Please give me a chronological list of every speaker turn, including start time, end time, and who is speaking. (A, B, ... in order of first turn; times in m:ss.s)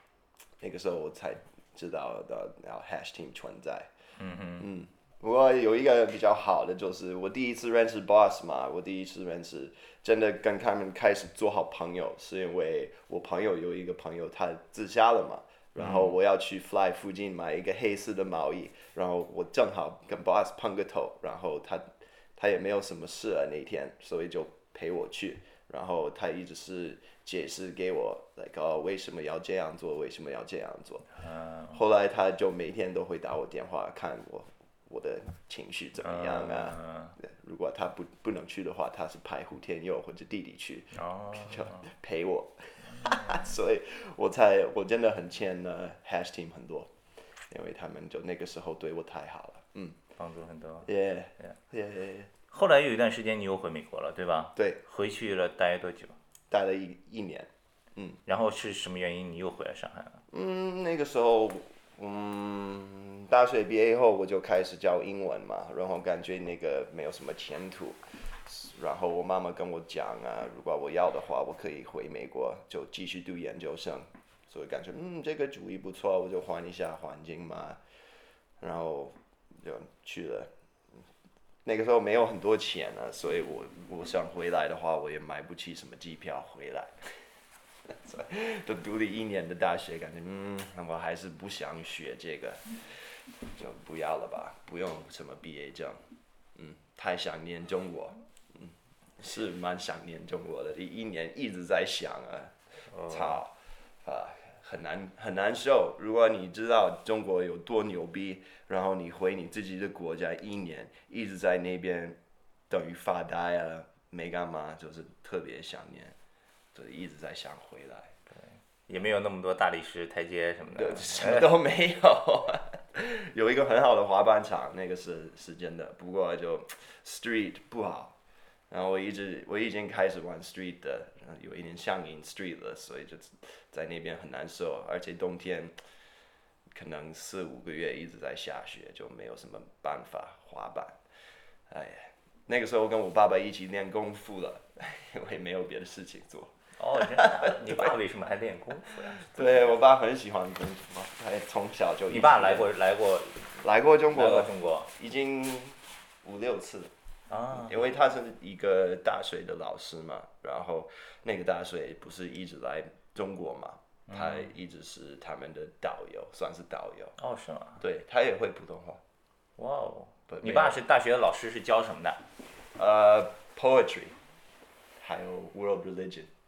0:00.6-0:03.9 A
0:04.2-0:04.7 B
0:04.6-0:31.1 A
0:15.8-0:16.1 B
0:31.2-0:31.8 B
0:31.7-0:46.9 A
0:36.0-0:37.2 B
0:40.9-0:41.9 B
0:42.9-0:43.6 B
0:47.5-0:50.0 A
0:50.2-0:50.9 B
0:50.8-0:52.3 A
0:52.5-0:56.2 B
0:56.5-0:58.2 A
0:58.3-1:00.2 B
1:00.3-1:17.8 A
1:18.6-1:20.5 A
1:21.6-1:27.0 A
1:27.9-1:36.0 A
1:36.6-1:52.2 A
1:42.9-1:43.4 B
1:52.7-1:56.2 A
1:56.7-1:58.2 A
1:58.3-2:01.6 B
2:00.8-2:08.2 A
2:08.7-2:15.7 A
2:16.7-2:21.0 A
2:21.7-2:27.9 A
2:26.8-2:29.8 B
2:28.9-2:32.7 A
2:32.1-2:33.6 B
2:33.6-2:36.9 A
2:34.1-2:34.9 B
2:37.3-2:37.8 B
2:37.5-2:47.2 A
2:44.1-2:44.5 B
2:47.2-2:47.8 B
2:47.8-2:49.0 A
2:49.6-2:52.2 B
2:50.3-2:50.8 A
2:52.8-2:54.2 A
2:55.0-2:56.3 A